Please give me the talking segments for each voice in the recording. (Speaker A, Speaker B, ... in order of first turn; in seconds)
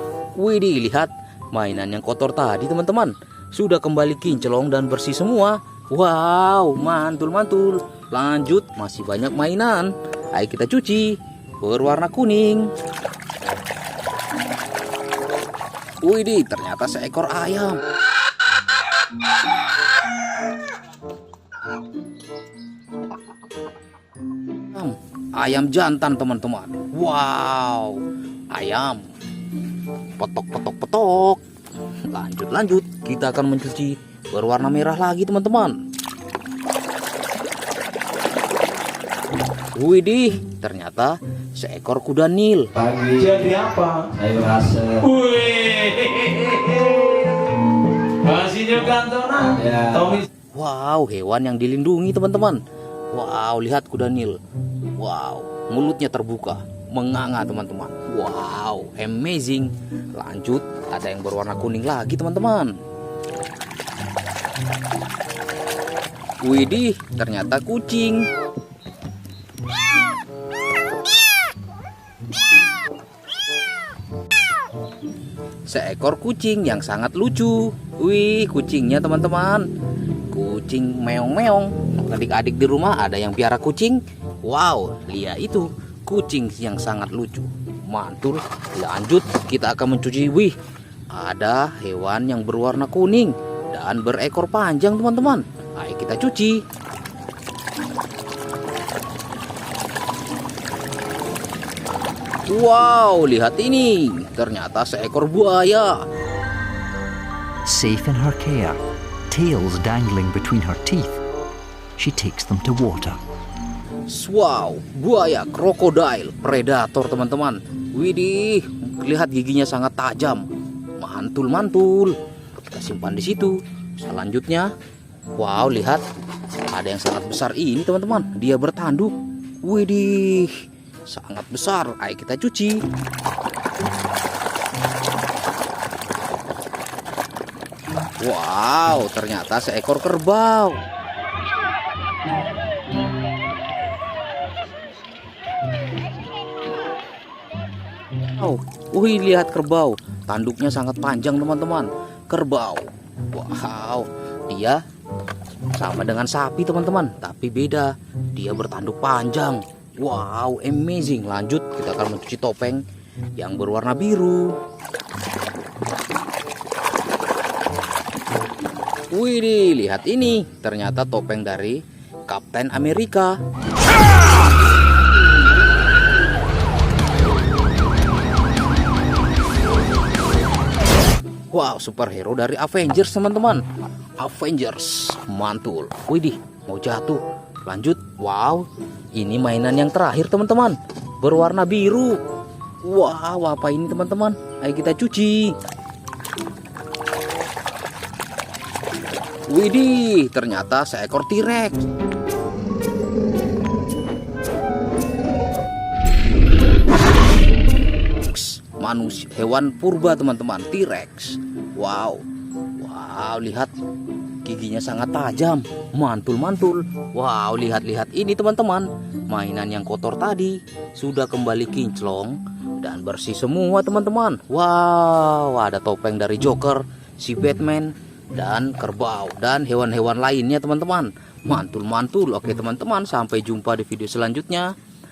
Speaker A: 0.3-12.7, 16.0-17.8, 24.7-28.0, 28.5-29.0, 30.2-31.4, 32.1-35.8, 39.8-42.7, 50.5-52.6, 53.1-54.4, 55.0-62.7, 66.4-68.2, 75.7-79.7, 80.3-90.5, 91.1-96.6, 102.5-106.0, 114.1-120.5, 121.0-124.7, 125.4-126.0, 126.7-129.1, 129.7-132.8, 138.2-140.8, 148.4-154.8, 155.8-162.8, 163.4-164.5, 169.1-173.3, 181.5-183.6, 184.2-192.2, 192.8-195.5, 199.5-201.8, 208.2-212.2, 212.8-213.7, 214.4-234.7
Speaker B: 42.8-43.4, 44.1-45.1, 49.6-50.2, 107.7-111.2, 112.0-113.2
Speaker C: 43.2-44.1, 45.1-47.4, 48.2-50.2